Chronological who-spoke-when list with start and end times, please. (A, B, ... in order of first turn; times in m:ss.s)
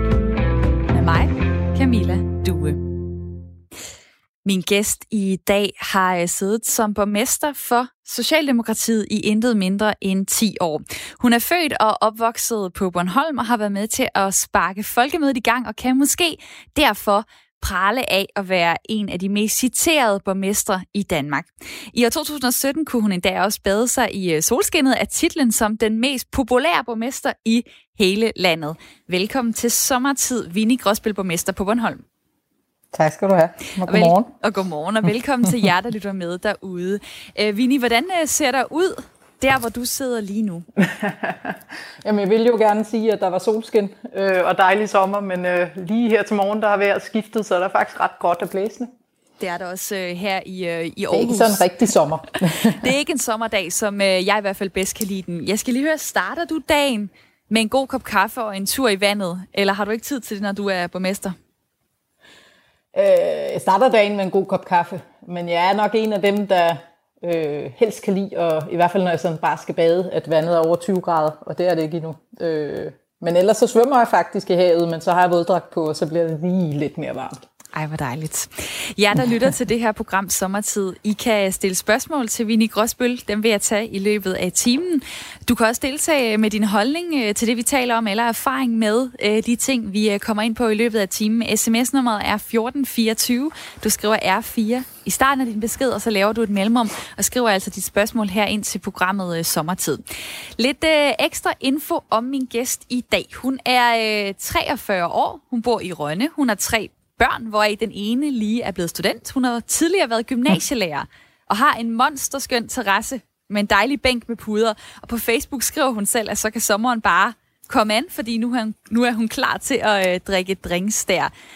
0:00.9-0:02.8 A
0:04.4-0:32.0 A
0:32.9-0:34.3 B
0:33.8-0:40.6 A
0:40.8-0:48.9 B
0:49.4-0:51.6 A
0:51.1-0:52.9 B
0:52.8-1:01.3 A
1:02.9-1:17.4 B
1:17.7-1:40.0 A
1:40.6-2:01.3 A